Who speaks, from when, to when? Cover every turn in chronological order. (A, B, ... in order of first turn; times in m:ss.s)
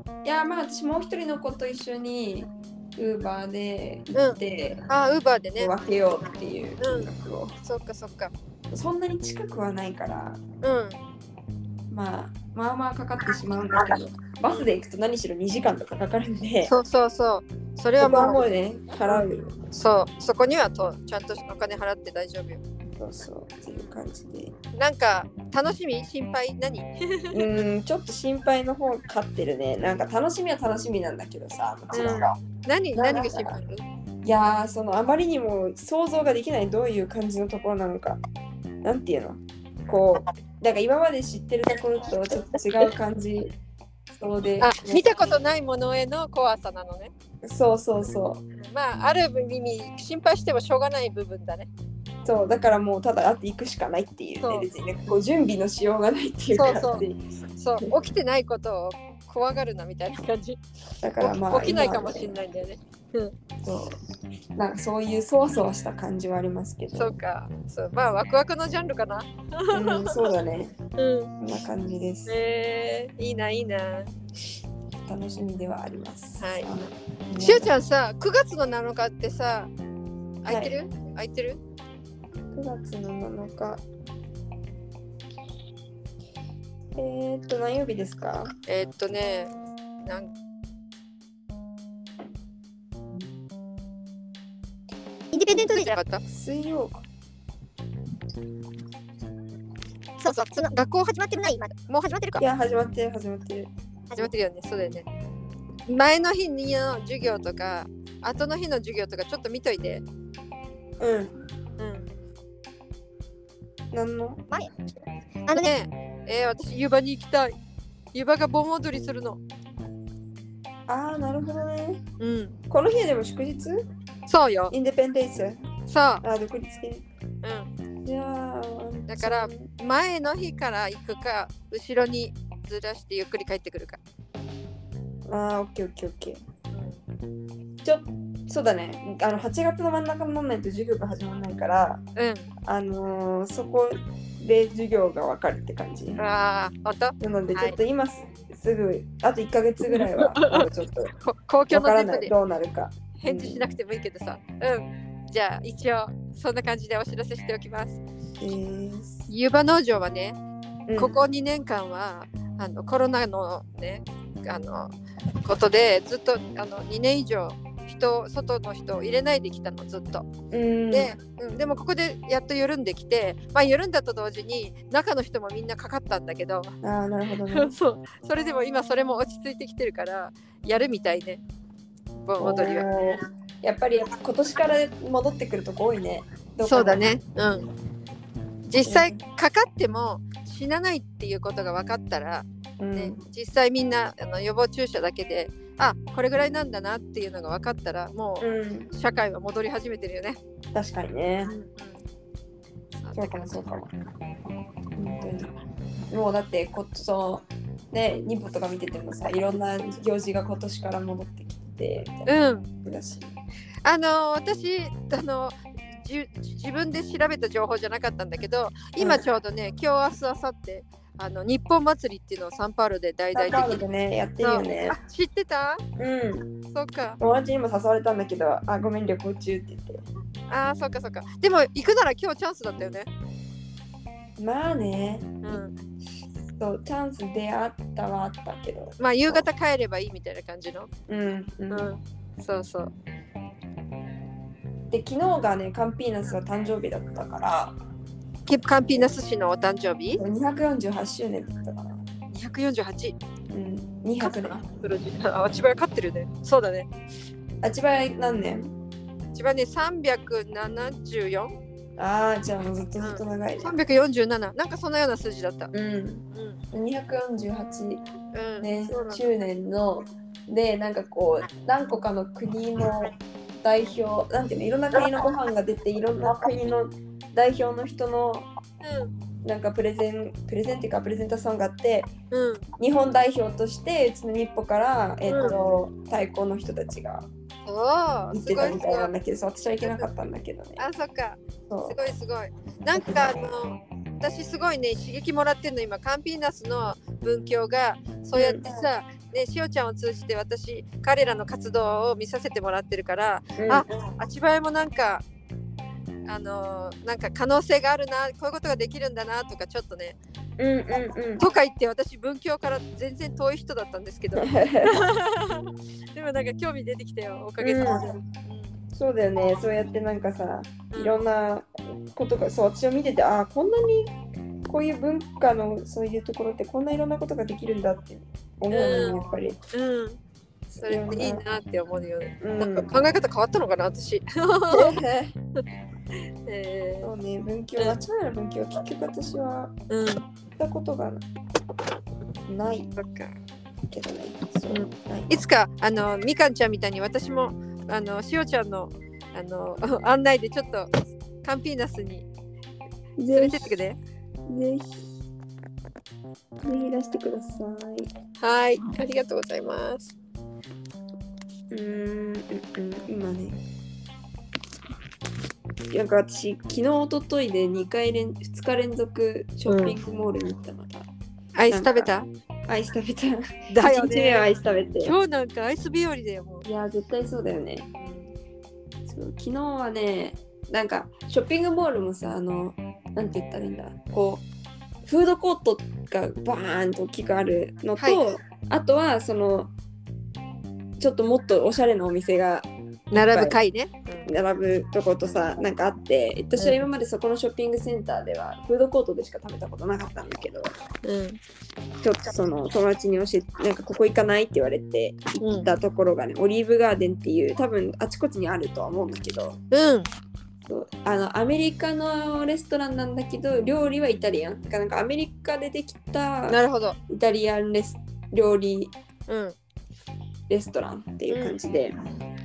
0:00.2-0:04.9 A
0:04.1-0:05.7 B
0:05.6-0:07.5 A
0:06.8-0:07.1 B
0:07.6-0:08.3 B
0:08.7-0:10.4 A
0:10.6-0:11.0 B
0:11.9-0:16.8 A
0:13.8-0:14.7 B
0:16.7-0:18.4 B
0:18.0-0:19.6 A
0:19.1-0:22.6 B
0:23.0-0:24.5 A
0:23.7-0:23.9 B
0:24.8-0:27.4 B
0:27.3-0:32.4 A
0:31.9-0:33.8 B
0:33.0-0:33.6 A
0:34.2-0:38.2 A
0:38.8-0:43.6 A
0:44.1-0:45.3 A
0:44.6-0:47.1 B
0:47.4-0:48.4 A
0:48.6-0:51.7 B
0:52.2-0:57.2 A
0:54.4-0:54.7 B
0:56.5-1:00.6 B
1:01.0-1:02.4 A
1:01.2-1:03.3 B
1:03.6-1:04.0 A
1:04.6-1:07.2 A
1:06.9-1:10.2 B
1:09.7-1:10.8 A
1:11.0-1:11.3 B
1:11.4-1:12.4 A
1:12.3-1:14.1 B
1:15.1-1:17.7 A
1:16.4-1:16.7 B
1:17.4-1:19.7 B
1:20.4-1:21.6 B
1:20.5-1:20.8 A
1:22.5-1:23.8 A
1:27.0-1:28.5 A
1:28.7-1:29.5 B
1:30.0-1:30.3 B
1:35.3-1:36.0 C
1:35.4-1:36.2 B
1:36.3-1:37.0 A
1:40.2-1:42.4 C
1:40.2-1:42.2 B
1:42.4-1:43.7 A
1:44.1-1:45.1 B
1:45.9-1:50.0 B
1:51.0-1:51.4 A
1:51.8-1:52.1 B
1:53.9-1:54.4 A
1:55.5-1:57.6 B
1:58.1-1:59.4 B
2:00.9-2:02.0 A
2:02.2-2:02.6 B
2:02.7-2:03.9 A
2:04.3-2:04.7 B
2:04.7-2:05.6 A
2:05.9-2:06.2 B
2:06.2-2:07.0 A
2:07.4-2:07.7 B
2:08.0-2:09.7 A
2:09.1-2:14.0 B
2:15.3-2:16.4 A
2:16.7-2:17.0 B
2:17.8-2:22.0 A
2:22.2-2:22.5 B
2:22.6-2:26.2 A
2:26.2-2:27.8 B
2:27.2-2:31.2 A
2:29.8-2:30.7 B
2:31.2-2:32.3 B
2:31.7-2:33.7 A
2:33.2-2:38.0 B
2:38.4-2:39.3 A
2:39.3-2:40.4 B
2:40.9-2:41.2 A
2:41.0-2:44.9 B
2:45.4-2:50.3 B
2:50.5-2:51.1 A
2:50.9-2:56.8 B
2:56.8-2:57.7 A
2:57.5-3:01.4 B
3:02.2-3:02.9 B
3:02.4-3:07.2 A
3:06.6-3:07.7 B
3:08.7-3:20.4 B
3:08.8-3:09.3 A
3:12.8-3:13.2 A
3:18.4-3:18.9 A
3:20.7-3:21.5 A
3:21.5-3:22.0 B
3:23.0-3:23.6 B
3:23.2-3:23.9 A
3:25.0-3:25.5 A
3:26.1-3:32.3 A
3:32.3-3:32.7 B
3:32.8-3:33.3 A
3:33.8-3:43.8 B
3:39.0-3:39.2 A
3:43.3-3:45.0 A
3:44.4-3:45.8 B
3:46.0-3:46.5 A
3:46.7-3:47.2 B
3:47.2-3:50.0 A
3:50.5-3:53.1 B
3:54.4-3:55.6 A
3:55.4-3:55.7 B
3:56.6-3:59.5 A
3:59.0-4:00.9 B
4:01.1-4:01.9 A
4:01.7-4:02.9 B
4:04.9-4:07.8 A
4:08.5-4:10.2 B
4:10.2-4:12.0 A
4:12.3-4:13.2 B
4:13.5-4:14.6 A
4:14.2-4:16.9 B
4:17.6-4:18.7 A
4:19.3-4:21.6 B
4:22.0-4:23.8 A
4:23.0-4:25.7 B
4:25.7-4:28.0 A
4:26.3-4:26.6 B
4:28.3-4:29.3 B
4:28.6-4:38.5 A
4:38.8-4:39.1 B
4:39.4-4:42.1 A
4:42.3-4:42.6 B
4:42.8-4:47.3 A
4:45.3-4:45.6 B
4:47.7-4:49.1 B
4:48.3-4:50.8 A
4:49.8-4:50.1 B
4:50.8-5:05.2 B
4:51.7-4:52.0 A
4:52.9-4:53.4 A
4:58.3-4:58.9 A
5:03.6-5:03.9 A
5:06.3-5:10.2 B
5:10.6-5:11.5 A
5:11.4-5:18.8 B
5:14.4-5:15.1 A
5:17.6-5:18.1 A
5:18.9-5:24.1 A
5:20.9-5:21.3 B
5:24.7-5:29.6 A
5:28.7-5:30.2 B
5:30.7-5:31.4 A
5:30.8-5:35.0 B
5:32.4-5:32.9 A
5:34.7-5:35.4 A
5:36.5-5:37.1 B
5:37.0-5:39.7 A
5:39.9-5:40.2 B
5:40.6-5:41.2 A
5:42.5-5:42.9 A
5:42.9-5:43.4 B
5:43.9-5:45.4 A
5:44.7-5:50.9 B
5:51.4-5:52.3 B
5:53.2-5:53.8 A
5:53.3-5:54.0 B
5:54.5-5:55.1 A
5:56.6-5:58.1 A
5:58.4-6:00.1 B
6:01.7-6:03.6 A
6:05.9-6:11.1 A
6:09.7-6:10.0 B
6:11.6-6:12.3 B
6:11.7-6:12.1 A
6:12.7-6:15.2 A
6:13.7-6:14.5 B
6:15.0-6:16.7 B
6:16.7-6:17.9 A
6:17.9-6:18.3 B
6:19.1-6:24.4 A
6:25.0-6:29.7 A
6:28.0-6:28.3 B
6:31.0-6:33.6 A
6:33.1-6:34.3 B
6:34.2-6:40.7 A
6:41.0-6:41.4 B
6:42.0-6:49.6 A
6:45.4-6:45.7 B
6:49.7-6:50.1 B
6:50.7-6:58.9 A
6:56.5-6:57.0 B
6:59.3-6:59.6 B
7:00.5-7:02.0 A
7:01.3-7:01.6 B